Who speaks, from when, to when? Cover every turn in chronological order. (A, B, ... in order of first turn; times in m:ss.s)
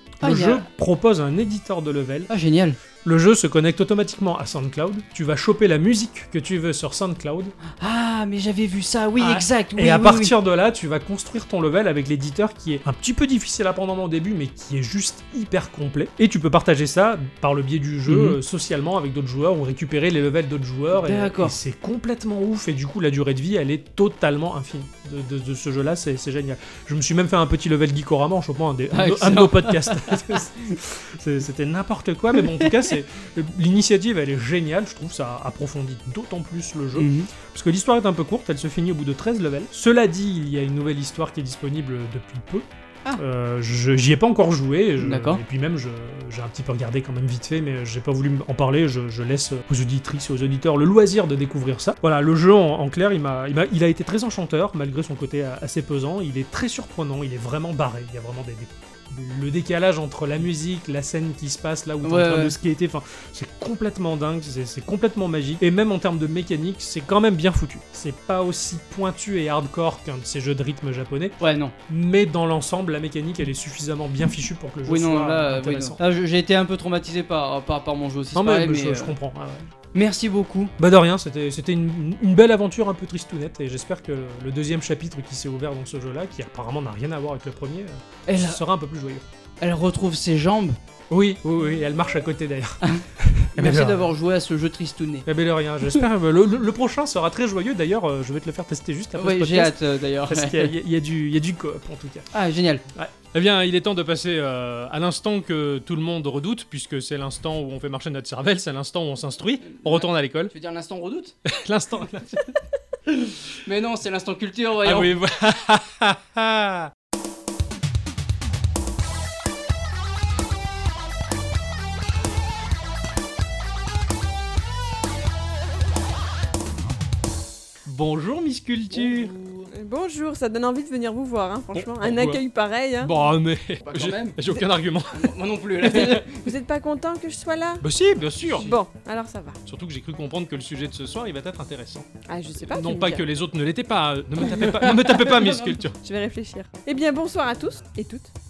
0:00.2-0:02.3 A
0:00.2-0:00.6 B
0:02.3-0:02.8 B
0:03.0-0:07.6 A
0:07.8-0:10.3 B
0:09.2-0:42.7 A
0:18.1-0:18.4 B
0:20.9-0:21.6 B
0:28.9-0:30.4 B
0:37.0-0:37.3 B
0:43.2-1:11.4 A
0:45.0-0:45.4 B
1:02.0-1:02.6 B
1:11.4-1:11.7 B
1:11.9-1:16.0 A
1:14.9-1:19.1 B
1:18.4-1:19.7 A
1:19.9-1:20.7 B
1:20.8-1:29.2 A
1:28.3-1:28.6 B
1:29.6-1:30.8 B
1:31.1-1:34.1 A
1:33.6-1:35.3 B
1:35.3-1:42.3 A
1:39.2-1:40.7 B
1:42.3-1:42.8 B
1:43.0-1:50.5 A
1:49.7-1:51.4 B
1:51.5-1:52.5 A
1:53.1-1:53.3 A
1:53.6-1:55.2 B
1:54.8-1:56.9 A
2:07.9-2:09.3 A
2:08.9-2:09.7 B
2:09.7-2:13.1 C
2:11.7-2:12.4 A
2:13.0-2:16.2 A
2:13.8-2:16.5 B
2:16.3-2:17.8 C
2:17.8-2:18.7 A
2:18.6-2:19.6 C
2:19.7-2:22.1 A
2:22.3-2:23.2 C
2:22.6-2:26.0 A
2:24.8-2:25.8 B
2:26.0-2:28.3 C